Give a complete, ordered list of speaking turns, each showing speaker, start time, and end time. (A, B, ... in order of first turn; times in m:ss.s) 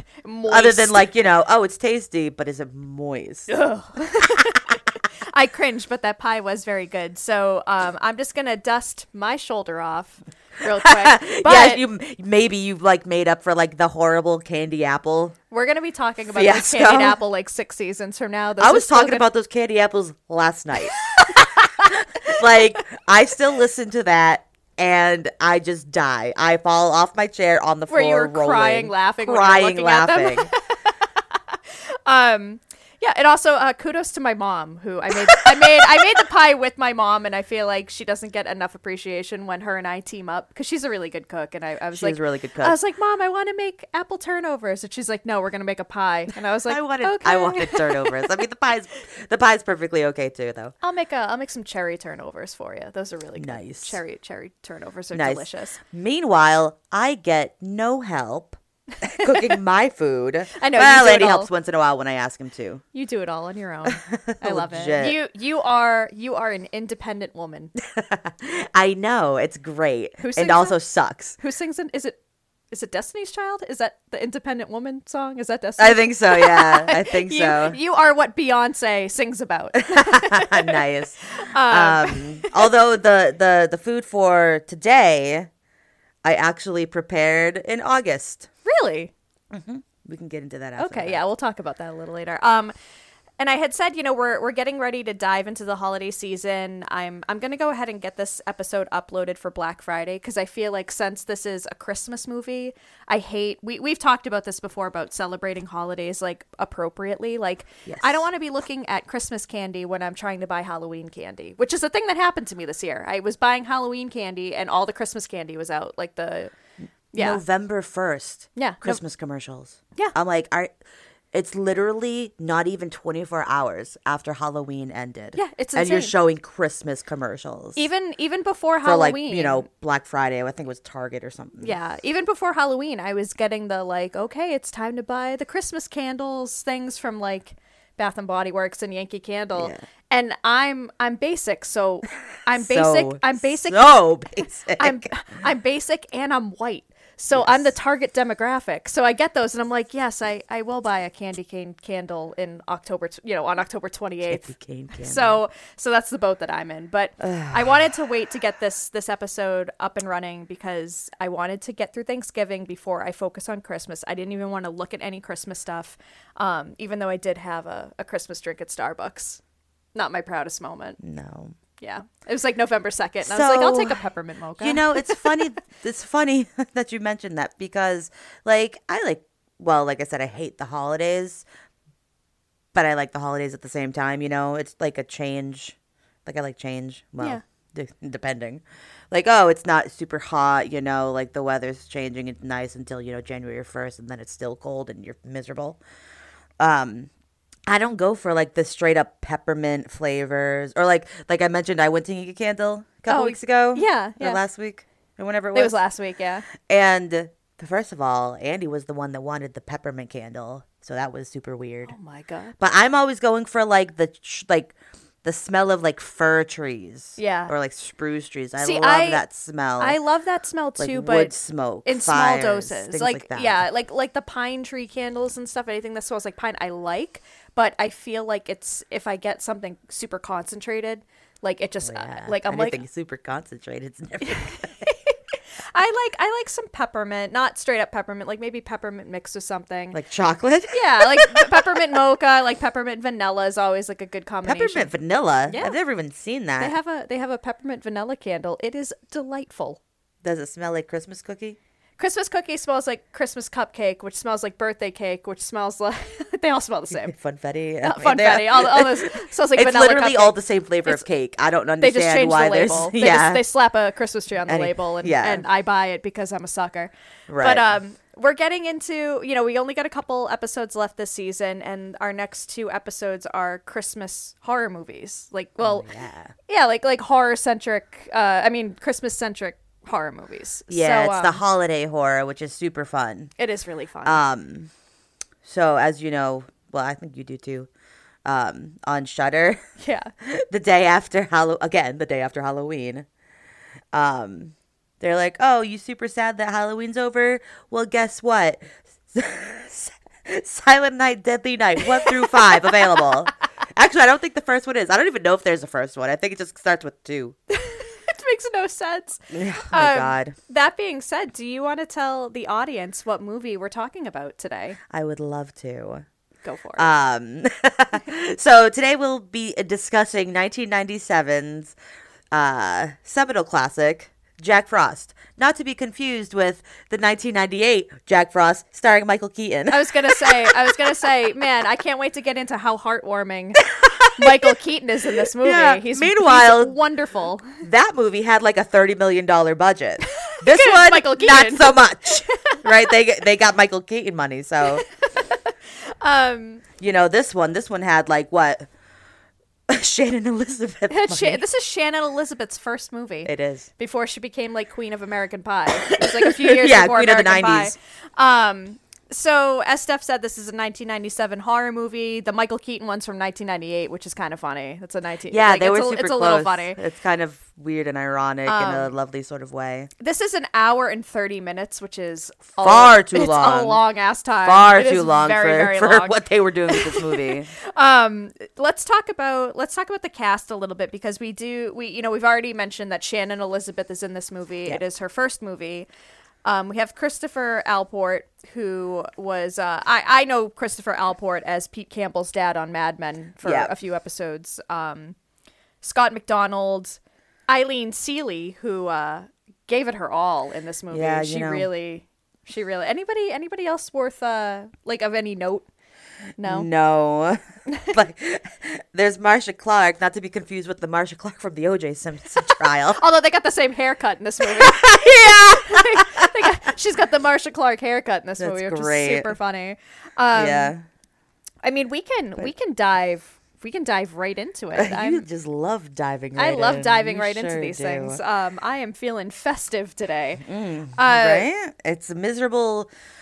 0:00.2-0:01.0 A
0:00.4-0:03.5 B
0:03.5-0:11.8 A
0:10.6-0:15.3 B
0:15.5-0:19.2 A
0:16.3-0:17.2 B
0:18.6-0:30.5 B
0:21.2-0:21.7 A
0:27.9-0:48.4 A
0:41.9-0:42.8 B
0:46.7-0:50.7 B
0:50.8-0:55.8 A
0:53.4-0:54.0 B
0:55.1-1:02.8 B
0:59.0-0:59.6 A
1:00.5-1:01.5 A
1:02.9-1:07.7 A
1:03.8-1:05.2 B
1:07.8-1:11.4 B
1:10.2-1:10.8 A
1:11.4-1:12.2 A
1:12.7-1:20.8 A
1:15.8-1:17.8 B
1:19.8-1:25.5 B
1:21.4-1:22.7 A
1:26.2-1:28.5 B
1:28.6-1:29.1 A
1:29.5-1:31.2 B
1:30.8-1:32.7 A
1:33.4-1:56.5 A
1:47.8-1:48.2 B
1:57.1-1:57.4 A
1:57.2-2:00.7 B
1:58.6-1:59.0 A
2:01.3-2:07.8 B
2:05.3-2:06.1 A
2:07.8-2:09.6 A
2:08.8-2:11.7 B
2:11.6-2:24.0 A
2:19.6-2:19.8 B
2:22.5-2:25.1 B
2:24.7-2:49.4 A
2:27.3-2:27.7 B
2:34.2-2:35.4 B
2:37.2-2:37.8 B
2:49.9-2:51.0 A
2:51.0-2:51.5 B
2:51.8-2:55.4 A
2:53.2-2:54.0 B
2:54.6-3:01.4 B
3:02.7-3:15.8 B
3:16.6-3:17.1 B
3:17.7-3:25.8 B
3:23.1-3:24.4 A
3:25.5-3:26.5 A
3:26.6-3:31.9 B
3:31.9-3:32.5 A
3:32.6-3:40.0 B
3:37.2-3:37.5 A
3:38.6-3:39.2 A
3:39.8-3:52.8 A
3:40.8-3:43.6 B
3:51.8-3:54.8 B
3:54.2-3:55.2 A
3:55.7-4:00.0 A
3:59.9-4:01.9 B
4:00.7-4:04.9 A
4:04.4-4:06.7 B
4:05.5-4:05.8 A
4:06.6-4:09.8 A
4:10.2-4:11.6 B
4:12.0-4:17.1 A
4:17.0-4:23.4 B
4:17.8-4:21.0 A
4:21.8-4:35.9 A
4:24.5-4:25.4 B
4:27.3-4:27.7 B
4:35.6-4:36.3 B
4:36.5-4:41.4 A
4:40.7-4:43.3 B
4:43.4-4:44.2 A
4:44.0-4:44.7 B
4:45.4-4:47.7 B
4:48.2-4:49.6 B
4:49.8-4:50.1 A
4:50.2-4:53.0 B
4:53.9-5:07.3 B
5:07.5-5:14.8 A
5:09.3-5:10.4 B
5:14.9-5:16.0 B
5:16.4-5:16.9 A
5:16.8-5:21.7 B
5:22.3-5:30.6 B
5:29.7-5:33.6 A
5:33.7-5:34.4 B
5:34.2-5:37.6 A
5:35.4-5:36.8 B
5:37.6-5:44.8 B
5:40.3-5:42.7 A
5:45.0-5:46.6 A
5:46.8-5:48.6 B
5:49.7-5:51.4 B
5:50.9-6:06.8 A
5:53.2-5:53.7 B
5:55.8-5:57.7 B
6:05.3-6:09.9 B
6:08.4-6:08.9 A
6:10.0-6:25.9 A
6:12.6-6:13.8 B
6:14.4-6:17.5 B
6:26.4-6:35.2 A
6:33.4-6:33.7 B
6:35.8-6:45.6 A
6:40.9-6:41.7 B
6:46.4-6:46.7 A
6:46.4-6:53.0 B
6:52.9-7:00.7 A
6:54.4-6:56.3 B
6:58.4-6:59.3 B
7:00.3-7:00.8 B
7:01.6-7:05.2 A
7:04.7-7:08.2 B
7:06.4-7:11.5 A
7:10.4-7:12.9 B